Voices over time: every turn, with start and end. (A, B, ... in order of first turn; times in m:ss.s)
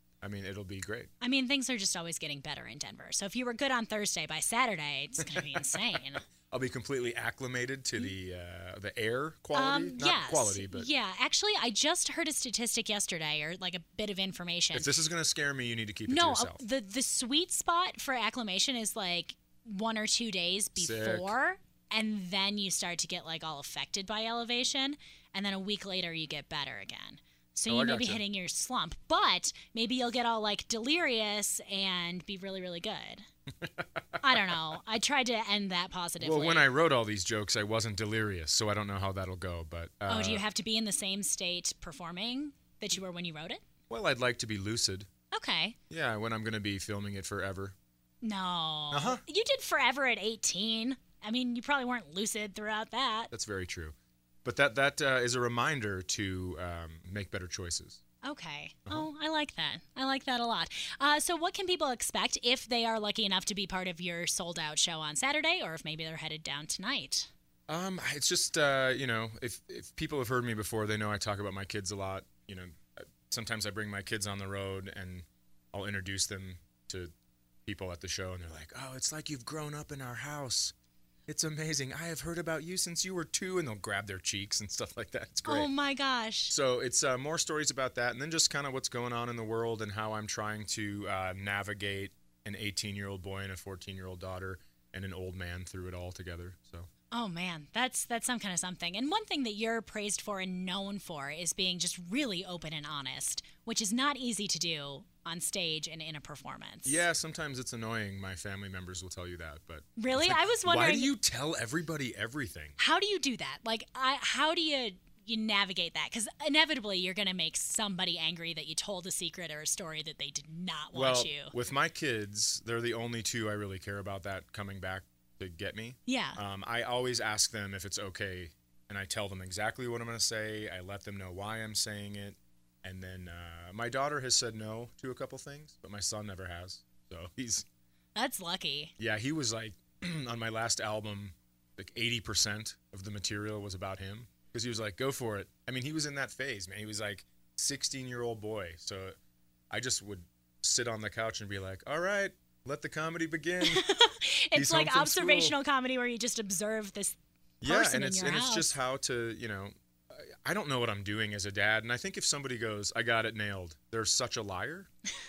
0:00.2-0:01.1 A
0:01.2-0:06.3 B
0:05.2-0:10.9 A
0:09.5-0:14.9 B
0:14.7-0:16.6 A
0:16.1-0:33.2 B
0:20.8-0:21.3 A
0:27.7-0:28.2 A
0:33.6-0:34.3 A
0:34.2-0:36.7 B
0:36.2-0:40.4 A
0:40.1-0:43.6 B
0:43.9-0:45.1 A
0:45.3-0:45.8 B
0:45.9-0:47.8 A
0:48.2-0:53.3 B
0:48.9-0:49.2 A
0:53.3-0:58.0 A
0:58.2-1:07.3 B
1:07.7-1:17.1 A
1:17.7-1:20.7 A
1:21.3-1:25.7 A
1:25.5-1:26.6 B
1:26.5-1:36.9 A
1:37.1-1:47.0 B
1:46.8-1:52.8 A
1:50.0-1:51.1 B
1:52.8-2:01.5 B
2:00.9-2:17.7 A
2:06.1-2:06.4 B
2:18.2-2:18.9 B
2:19.0-2:29.2 A
2:29.7-2:33.8 A
2:33.6-2:38.7 B
2:34.5-2:35.6 A
2:37.6-2:44.9 A